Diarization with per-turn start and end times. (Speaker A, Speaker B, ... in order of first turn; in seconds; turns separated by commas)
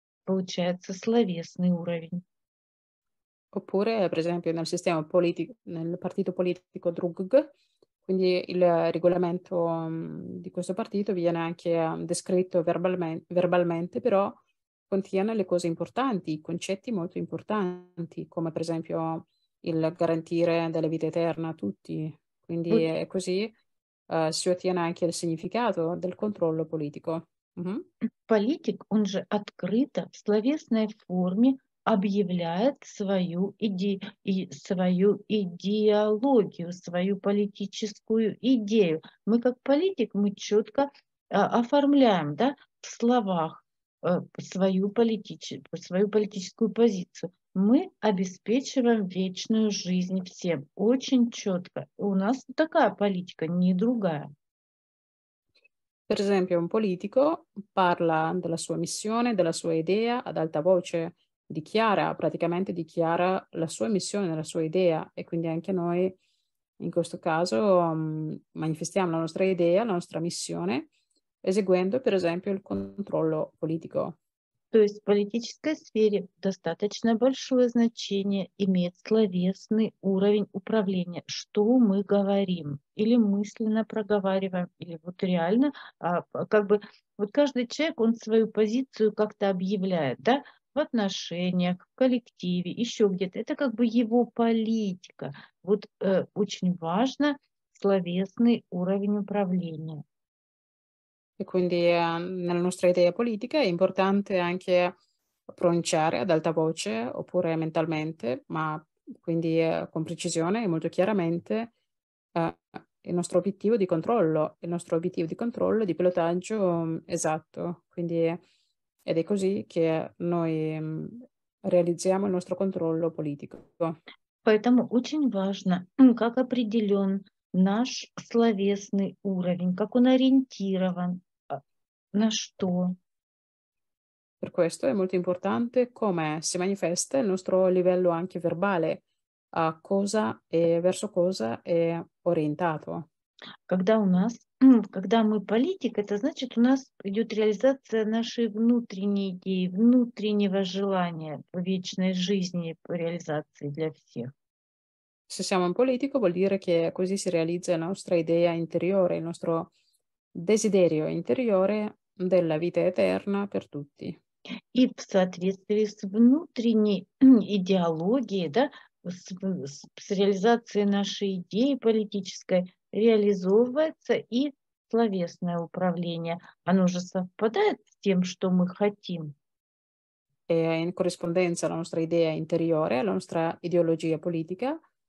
Speaker A: 0.3-2.2, Speaker B: 3.5-7.5, Speaker B: 8.0-23.5, Speaker B: 24.1-27.9, Speaker A: 28.3-54.3, Speaker B: 56.1-66.2, Speaker B: 66.8-70.9, Speaker B: 71.4-74.2, Speaker A: 74.7-100.0, Speaker B: 101.4-104.9, Speaker B: 105.5-111.7, Speaker B: 112.3-118.4, Speaker B: 119.0-124.0, Speaker A: 124.4-131.6, Speaker A: 132.1-133.0, Speaker B: 134.4-143.1, Speaker A: 143.7-154.3, Speaker B: 155.3-159.7, Speaker B: 160.3-164.2, Speaker A: 164.7-179.3, Speaker B: 180.5-184.8